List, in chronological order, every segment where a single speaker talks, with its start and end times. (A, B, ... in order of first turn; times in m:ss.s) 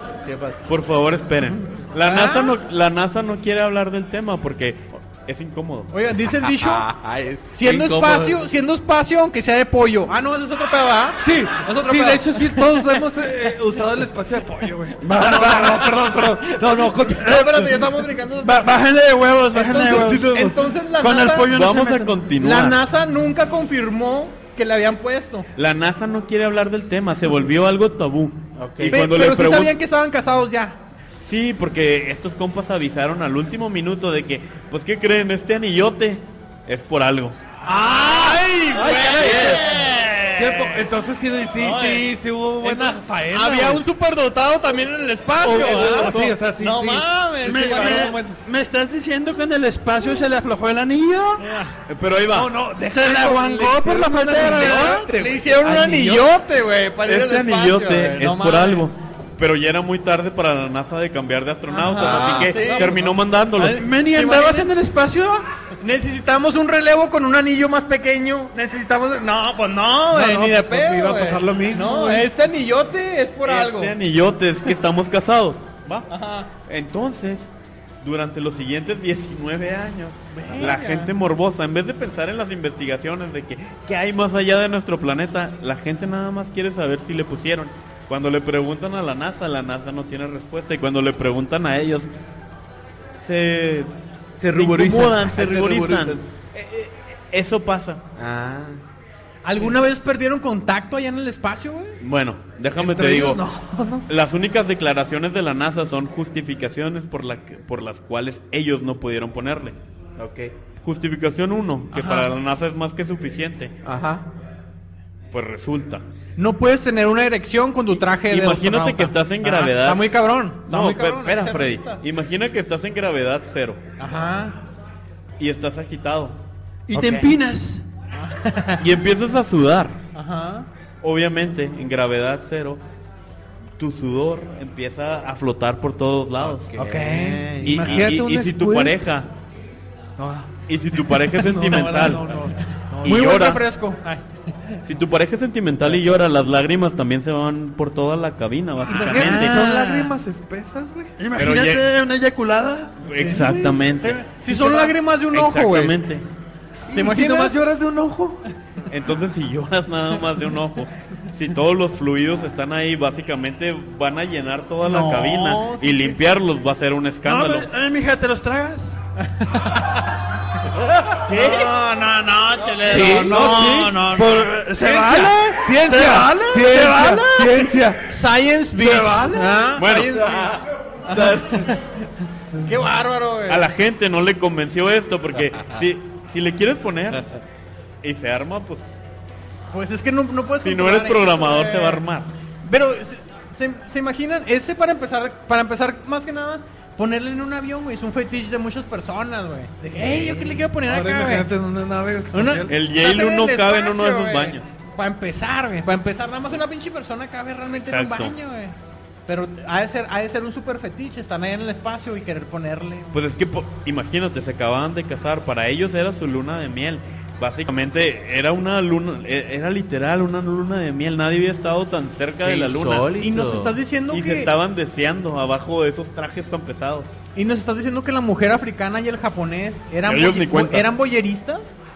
0:00.2-0:00.6 A
0:00.7-0:05.9 B
0:02.0-0:02.5 C
0:05.9-0:06.9 C
0:06.4-0:08.4 A
0:07.5-0:12.9 C
0:11.2-0:17.7 D
0:15.0-0:16.1 E
0:17.1-0:18.7 C
0:17.2-0:17.7 E
0:18.4-0:22.2 E
0:19.5-0:21.5 C
0:21.5-0:22.8 B
0:22.4-0:25.5 C
0:25.6-0:29.7 B
0:28.6-0:29.0 A
0:28.8-0:30.8 C
0:31.2-0:37.4 B
0:37.6-0:40.8 C
0:37.9-0:39.6 A
0:38.8-0:39.4 D
0:39.2-0:39.6 E
0:40.4-0:43.8 D
0:41.6-0:42.1 C
0:42.6-0:48.2 C
0:45.4-0:48.4 D
0:45.5-0:46.2 E
0:47.4-0:51.4 E
0:51.4-0:51.7 C
0:51.9-0:52.5 B
0:52.3-0:56.3 D
0:52.8-0:55.1 E
0:54.4-0:58.9 C
0:57.0-1:03.9 B
1:01.7-1:03.0 C
1:02.0-1:02.5 A
1:03.6-1:04.7 C
1:03.7-1:05.4 E
1:04.2-1:05.4 A
1:05.8-1:13.9 C
1:10.1-1:12.3 D
1:13.4-1:16.1 B
1:16.1-1:16.5 C
1:16.7-1:32.1 B
1:20.3-1:21.1 C
1:33.2-1:33.9 B
1:34.4-1:36.2 A
1:34.5-1:38.0 B
1:38.2-1:38.8 A
1:39.4-1:42.0 C
1:42.0-1:43.4 B
1:42.8-1:44.0 D
1:44.1-1:49.8 B
1:50.2-1:50.5 A
1:50.8-1:53.7 B
1:51.9-1:52.3 C
1:53.8-1:54.2 A
1:55.3-1:56.0 B
1:56.4-2:02.0 C
1:57.9-2:03.8 B
2:04.0-2:04.6 C
2:05.4-2:06.4 B
2:06.9-2:07.8 E
2:06.9-2:07.3 C
2:08.1-2:08.8 C
2:08.8-2:10.0 B
2:10.1-2:10.7 C
2:11.0-2:12.8 B
2:13.8-2:16.7 B
2:16.4-2:18.1 A
2:16.8-2:17.5 C
2:17.6-2:19.3 B
2:17.6-2:19.0 D
2:20.2-2:20.5 D
2:20.7-2:22.3 B
2:21.1-2:23.2 D
2:23.0-2:24.2 C
2:23.0-2:23.6 B
2:24.8-2:29.6 B
2:28.9-2:30.1 C
2:28.9-2:31.1 D
2:31.2-2:33.0 E
2:31.4-2:31.8 B
2:33.0-2:36.2 B
2:33.2-2:35.9 C
2:33.2-2:33.7 D
2:36.9-2:38.4 D
2:36.9-2:37.6 C
2:38.9-2:47.7 B
2:44.8-2:46.2 C
2:47.2-2:49.0 E
2:49.2-2:50.2 C
2:51.2-2:54.5 C
2:51.3-2:51.7 B
2:52.9-2:53.4 A
2:52.9-2:57.6 E
2:53.0-2:54.1 D
2:54.8-2:58.1 D
2:57.9-3:01.8 C
2:58.7-2:59.6 E
2:59.8-3:00.4 B
3:02.6-3:03.6 C
3:03.5-3:07.4 B
3:08.0-3:08.9 B
3:09.7-3:12.0 C
3:10.6-3:12.3 B
3:12.6-3:21.5 C
3:20.7-3:22.7 D
3:22.3-3:28.7 C
3:22.7-3:24.7 B
3:27.8-3:28.3 B
3:29.3-3:33.1 C
3:33.1-3:43.1 B
3:42.4-3:43.8 A
3:43.2-3:44.5 C
3:44.1-3:47.1 B
3:47.4-3:51.7 C
3:50.0-3:50.9 B